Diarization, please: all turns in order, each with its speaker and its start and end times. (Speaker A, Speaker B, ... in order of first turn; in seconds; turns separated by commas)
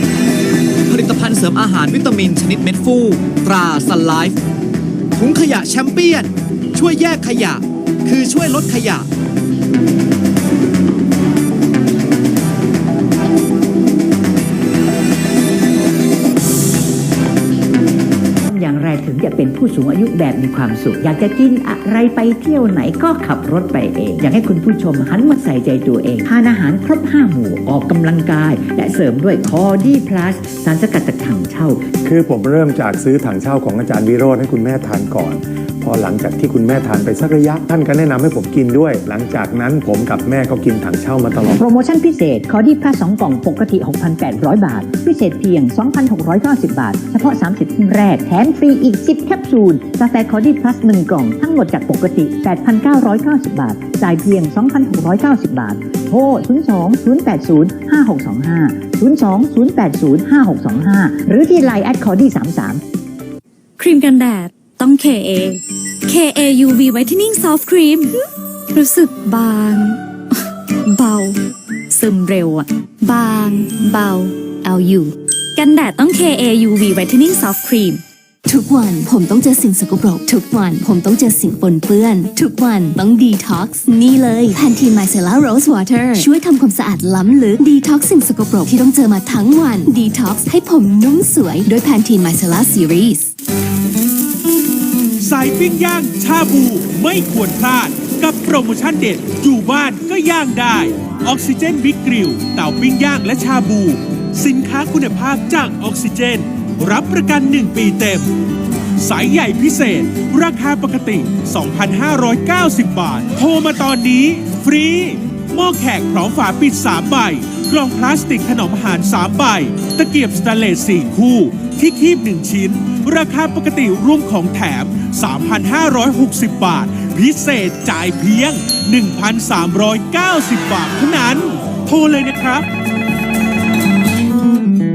Speaker A: 0.9-4.4, Speaker A: 5.2-9.1, Speaker B: 18.5-31.8, Speaker C: 32.0-41.6, Speaker B: 41.5-62.8, Speaker D: 63.8-68.1, Speaker D: 68.7-70.0, Speaker D: 70.9-71.3, Speaker D: 71.9-74.8, Speaker D: 75.5-78.0, Speaker E: 78.5-93.3, Speaker F: 95.2-108.3, Speaker F: 109.0-132.7